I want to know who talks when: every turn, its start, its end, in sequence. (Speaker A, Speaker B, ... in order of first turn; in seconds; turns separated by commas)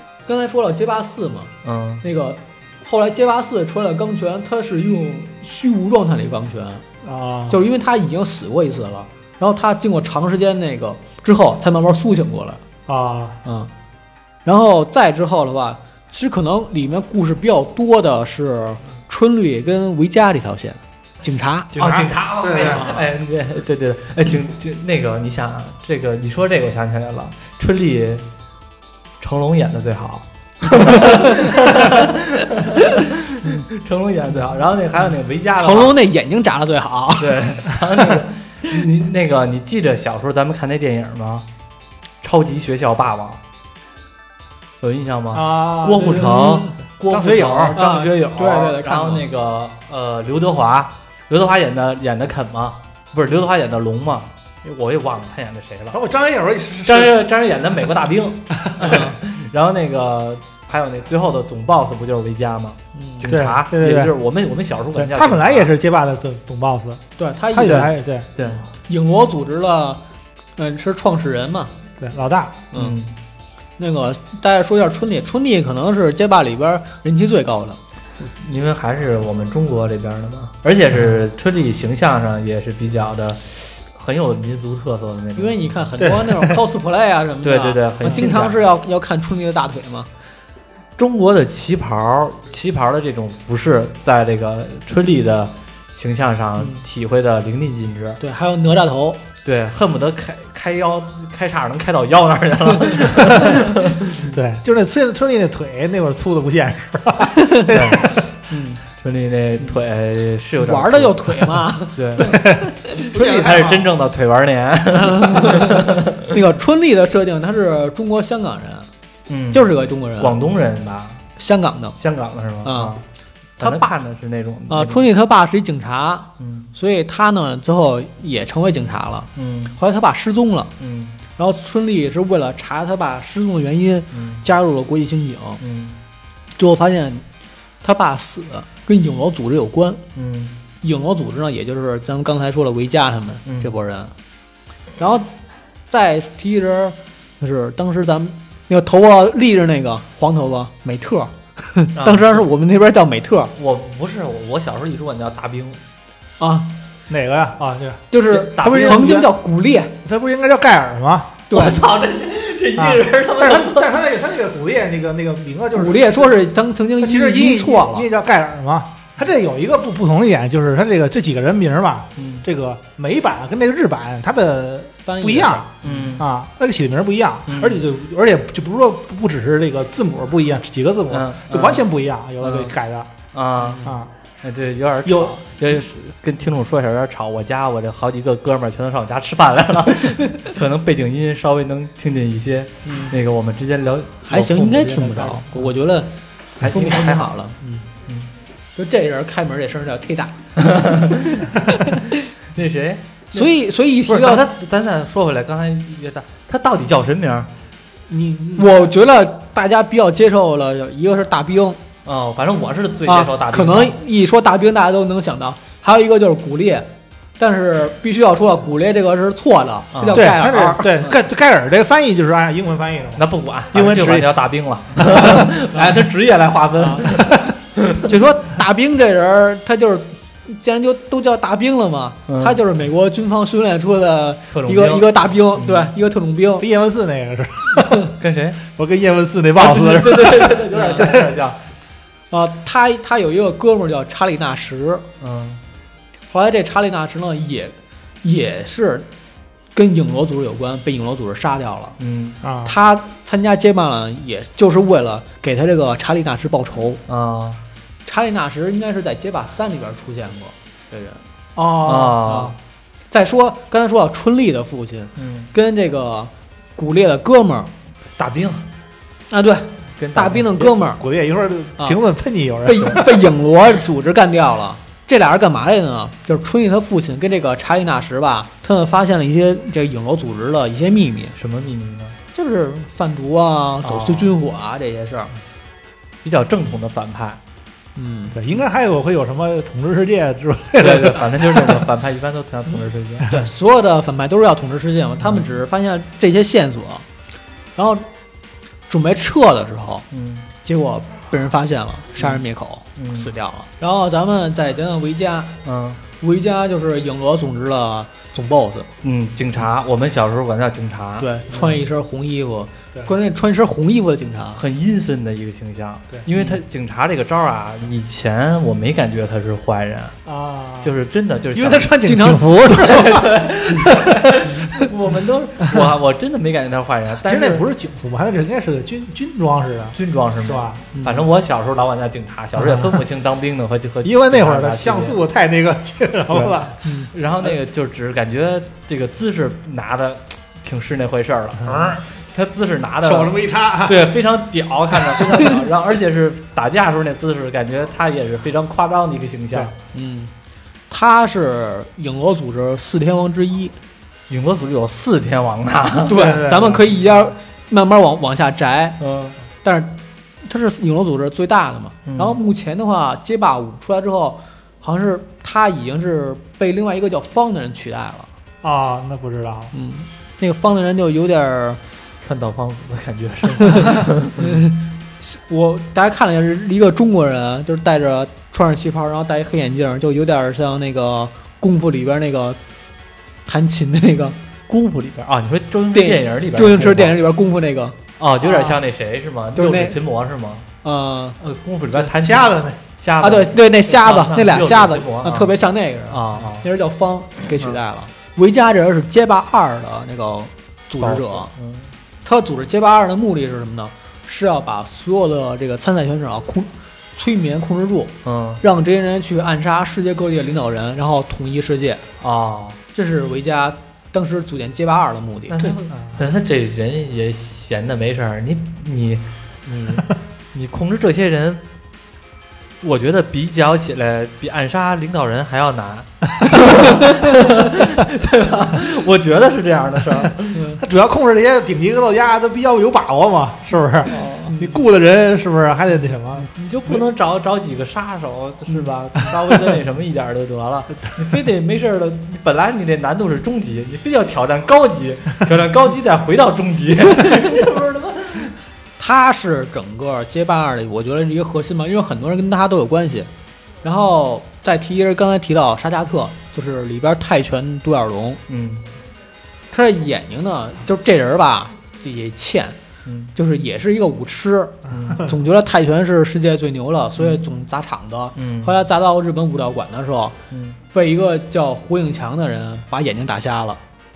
Speaker A: 0.3-1.5, Speaker B: 1.6-2.0, Speaker A: 2.0-6.8, Speaker C: 7.0-7.6, Speaker A: 7.5-12.6, Speaker C: 12.9-13.4, Speaker A: 13.4-13.7, Speaker A: 14.4-21.7, Speaker C: 21.7-22.9, Speaker B: 21.7-28.2, Speaker A: 22.7-23.0, Speaker B: 29.2-35.9, Speaker A: 30.7-31.7, Speaker A: 35.6-38.1, Speaker B: 37.2-41.5, Speaker B: 42.2-43.4, Speaker B: 44.8-56.0, Speaker C: 45.3-47.8, Speaker A: 46.2-46.7, Speaker A: 47.7-49.2, Speaker C: 55.9-57.2, Speaker B: 56.9-65.7, Speaker C: 58.6-59.0, Speaker A: 58.8-59.2, Speaker A: 63.0-63.3, Speaker C: 63.3-64.2, Speaker C: 64.9-68.3, Speaker A: 67.2-67.9, Speaker B: 68.4-68.6, Speaker A: 68.7-70.0, Speaker A: 70.6-71.7, Speaker C: 72.0-72.6, Speaker A: 72.7-73.0, Speaker B: 72.7-73.1, Speaker A: 73.8-77.8, Speaker B: 78.2-85.9, Speaker A: 85.3-90.1, Speaker C: 86.0-86.6, Speaker B: 87.4-88.6, Speaker B: 91.0-98.2, Speaker A: 96.6-96.8, Speaker A: 98.2-99.2, Speaker B: 99.4-104.2, Speaker C: 104.2-108.2, Speaker A: 107.3-107.8, Speaker B: 107.7-108.2, Speaker A: 108.5-108.8, Speaker B: 109.0-116.3, Speaker A: 110.6-113.1, Speaker C: 112.2-113.9, Speaker A: 114.9-118.9, Speaker B: 119.3-121.2, Speaker A: 119.5-120.4, Speaker A: 121.4-122.0, Speaker B: 122.0-123.0, Speaker A: 122.6-123.0, Speaker B: 123.6-125.1, Speaker A: 123.6-123.9, Speaker A: 124.7-130.7, Speaker B: 126.4-126.7, Speaker B: 129.3-129.8, Speaker B: 130.8-131.2, Speaker A: 131.3-135.6, Speaker B: 134.1-134.4, Speaker B: 135.6-136.0, Speaker A: 136.6-137.2, Speaker A: 137.8-140.0, Speaker B: 140.1-140.6, Speaker A: 140.8-144.1, Speaker B: 143.4-143.7, Speaker A: 145.0-145.3, Speaker A: 145.9-153.5, Speaker B: 151.9-152.4, Speaker B: 153.6-155.8, Speaker A: 156.4-156.7, Speaker C: 157.1-159.3, Speaker A: 158.1-159.9, Speaker B: 158.3-159.2, Speaker C: 160.0-161.4, Speaker A: 161.5-161.8, Speaker B: 161.5-163.9, Speaker C: 162.8-166.3, Speaker A: 165.7-168.1, Speaker C: 167.0-183.1, Speaker B: 172.2-172.4, Speaker A: 175.1-176.2, Speaker B: 175.8-176.3, Speaker B: 177.5-177.8, Speaker B: 181.1-181.8, Speaker B: 182.4-182.7, Speaker B: 183.3-183.9, Speaker A: 183.6-183.9, Speaker C: 183.8-184.1, Speaker B: 184.4-195.7, Speaker C: 185.0-185.4, Speaker A: 192.8-193.1, Speaker A: 194.3-196.1, Speaker B: 196.6-197.3, Speaker A: 196.6-197.8, Speaker B: 197.9-198.3, Speaker A: 198.8-200.4, Speaker B: 200.6-203.5, Speaker A: 201.6-202.2, Speaker A: 203.3-204.5, Speaker B: 204.0-207.5, Speaker C: 208.1-208.7, Speaker A: 208.6-211.8, Speaker B: 212.0-214.0, Speaker A: 213.1-221.2, Speaker B: 219.9-220.3, Speaker C: 220.1-224.3, Speaker B: 223.2-228.1, Speaker C: 225.1-225.4, Speaker A: 225.3-225.8, Speaker A: 226.8-227.3, Speaker C: 227.0-227.4, Speaker A: 228.0-236.7, Speaker B: 232.3-232.6, Speaker B: 234.5-235.9, Speaker C: 236.6-241.4, Speaker B: 238.1-238.6, Speaker B: 239.6-241.6, Speaker A: 242.3-245.0, Speaker B: 245.2-245.6, Speaker A: 246.3-249.1, Speaker A: 249.7-252.0, Speaker B: 252.0-252.4, Speaker C: 252.4-252.8, Speaker A: 252.6-257.0, Speaker B: 257.1-257.6, Speaker A: 258.1-261.2, Speaker C: 261.6-262.5, Speaker B: 261.8-262.5, Speaker A: 262.3-262.5, Speaker A: 263.1-267.7, Speaker B: 265.1-265.5, Speaker B: 268.2-268.7, Speaker A: 269.3-271.0, Speaker B: 270.0-270.7, Speaker C: 271.0-273.2, Speaker A: 272.6-281.3, Speaker B: 281.4-282.2, Speaker A: 282.3-285.3, Speaker B: 283.8-284.3, Speaker B: 286.2-287.4, Speaker A: 287.9-288.4, Speaker C: 288.3-291.8, Speaker B: 290.8-293.4, Speaker A: 293.3-297.0, Speaker A: 297.8-298.1, Speaker A: 298.9-300.0, Speaker B: 300.1-300.5, Speaker A: 300.6-305.6, Speaker B: 302.2-302.4, Speaker B: 303.0-303.3, Speaker B: 305.6-306.0, Speaker A: 306.2-308.9, Speaker B: 309.0-311.8, Speaker A: 311.2-314.6, Speaker B: 314.6-320.2, Speaker A: 316.3-316.6, Speaker C: 320.2-320.9, Speaker B: 320.8-321.9, Speaker C: 321.5-324.9, Speaker A: 322.0-322.5, Speaker B: 322.6-327.6, Speaker C: 327.1-330.8, Speaker B: 329.9-335.2, Speaker A: 330.9-331.3, Speaker C: 332.6-333.0, Speaker C: 334.0-336.8, Speaker B: 336.3-349.7, Speaker A: 336.8-337.1, Speaker C: 343.0-344.1, Speaker C: 344.9-345.3, Speaker A: 349.9-350.3, Speaker A: 350.9-353.7, Speaker B: 354.3-356.2, Speaker A: 356.0-359.0, Speaker C: 356.1-356.9, Speaker B: 359.0-359.4, Speaker A: 359.6-368.3, Speaker B: 362.1-362.4, Speaker C: 368.6-369.7, Speaker A: 369.7-371.8, Speaker B: 372.2-374.6, Speaker A: 373.6-382.6, Speaker A: 383.5-384.4, Speaker B: 384.7-387.2, Speaker A: 385.9-388.0, Speaker B: 388.2-390.6, Speaker C: 388.4-388.8, Speaker A: 389.6-390.0, Speaker A: 390.8-391.4, Speaker B: 391.4-395.6, Speaker C: 391.9-392.8, Speaker A: 393.2-401.5, Speaker B: 396.1-396.6, Speaker B: 401.0-401.9, Speaker A: 402.2-412.0, Speaker B: 408.2-408.6, Speaker B: 412.2-412.8, Speaker A: 412.9-415.8, Speaker B: 415.5-421.6, Speaker C: 415.9-416.2, Speaker B: 422.8-430.7, Speaker A: 430.5-430.8, Speaker C: 430.8-436.5, Speaker B: 434.1-434.6, Speaker A: 434.3-434.8, Speaker B: 436.3-448.6, Speaker C: 439.2-439.7, Speaker A: 449.0-453.3, Speaker A: 453.8-458.4, Speaker B: 458.5-458.9, Speaker A: 459.7-462.8, Speaker B: 463.1-463.3, Speaker A: 463.3-470.4, Speaker B: 464.9-465.3, Speaker B: 467.2-467.4, Speaker B: 468.4-468.8, Speaker B: 470.5-470.8, Speaker A: 470.9-473.8